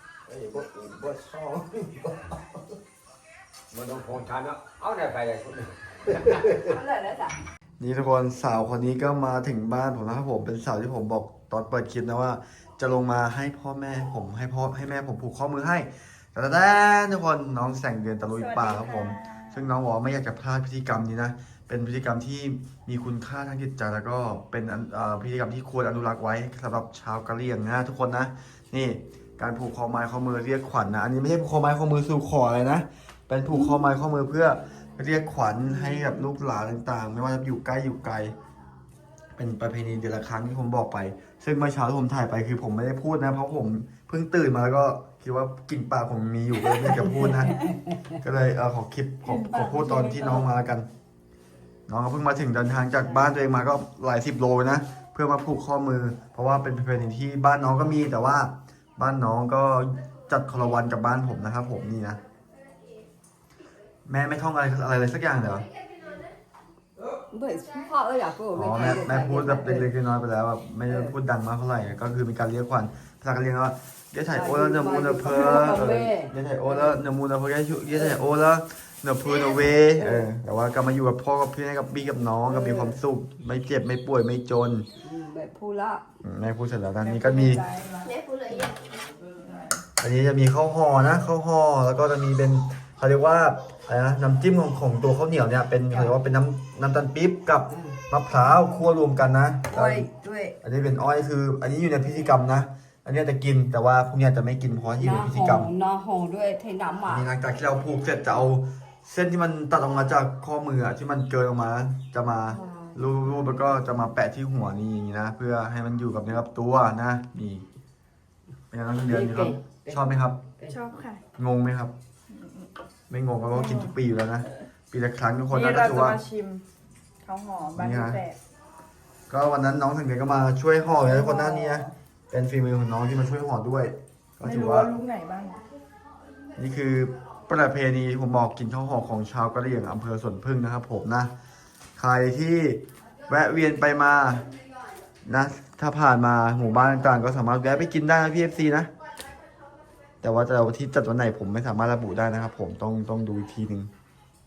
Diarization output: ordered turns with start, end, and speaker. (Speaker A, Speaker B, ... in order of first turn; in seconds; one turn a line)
Speaker A: 0.3-2.4
Speaker B: 0.7-1.4
Speaker B: 3.7-6.2
Speaker C: 6.4-7.4
Speaker D: 7.8-38.3
Speaker E: 18.3-19.7
Speaker E: 33.6-33.8
Speaker D: 39.4-47.5
Speaker C: 46.9-47.8
Speaker D: 48.2-50.9
Speaker E: 49.3-50.5
Speaker D: 51.9-62.2
Speaker D: 64.0-65.7
Speaker C: 67.3-69.9
Speaker D: 68.5-84.9
Speaker C: 70.9-71.1
Speaker C: 74.3-77.0
Speaker C: 77.9-78.2
Speaker C: 79.8-80.3
Speaker C: 82.4-83.0
Speaker C: 85.0-86.0
Speaker D: 86.2-87.7
Speaker E: 87.0-88.1
Speaker E: 89.4-89.8
Speaker D: 90.0-100.1
Speaker C: 95.9-96.2
Speaker C: 97.7-98.0
Speaker C: 99.7-100.5
Speaker D: 100.6-105.7
Speaker C: 105.0-107.3
Speaker D: 107.1-117.7
Speaker C: 112.5-113.7
Speaker D: 118.7-120.4
Speaker C: 119.0-120.8
Speaker E: 120.7-121.2
Speaker D: 121.3-121.9
Speaker E: 122.4-122.7
Speaker D: 123.1-126.2
Speaker E: 123.5-123.9
Speaker E: 125.5-126.6
Speaker E: 127.2-128.3
Speaker D: 127.7-128.2
Speaker D: 129.3-134.9
Speaker E: 131.0-131.8
Speaker E: 134.4-135.6
Speaker D: 136.5-141.3
Speaker D: 141.9-144.5
Speaker D: 145.2-148.9
Speaker D: 150.2-153.9